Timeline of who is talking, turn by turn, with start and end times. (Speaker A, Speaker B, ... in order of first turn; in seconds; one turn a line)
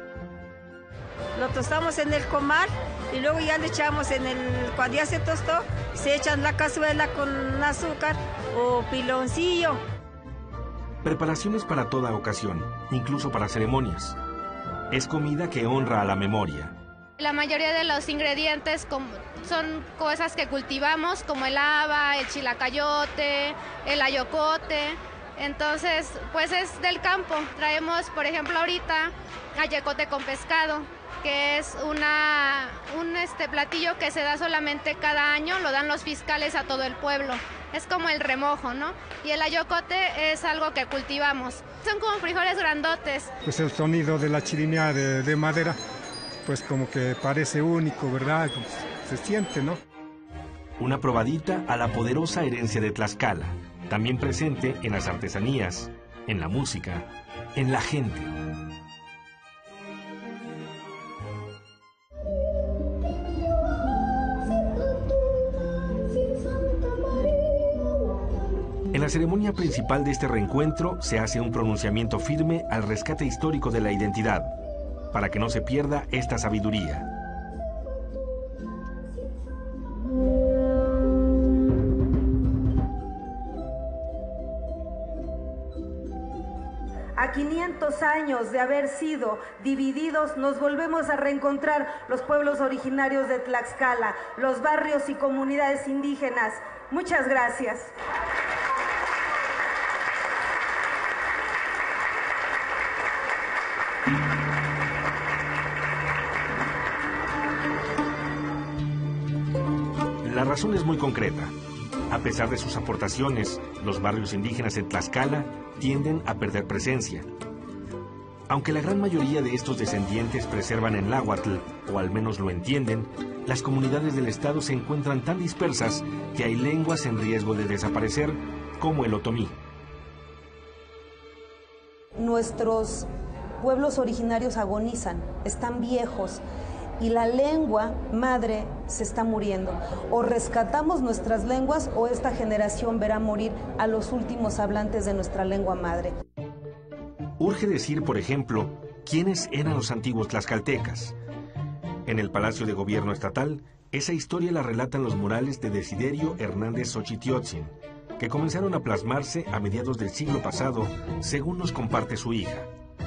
Speaker A: 1.4-9.8
Speaker B: 11.0-14.2
Speaker B: 14.9-16.7
Speaker C: 17.2-43.3
Speaker D: 43.4-45.8
Speaker D: 46.5-49.8
Speaker B: 50.8-58.3
Speaker B: 68.9-74.5
Speaker B: 75.1-77.1
Speaker E: 87.2-97.9
Speaker B: 110.2-111.5
Speaker B: 112.1-117.3
Speaker B: 118.5-129.6
Speaker E: 132.2-133.1
Speaker E: 133.6-136.4
Speaker E: 137.0-146.1
Speaker B: 147.4-151.2
Speaker B: 152.1-162.7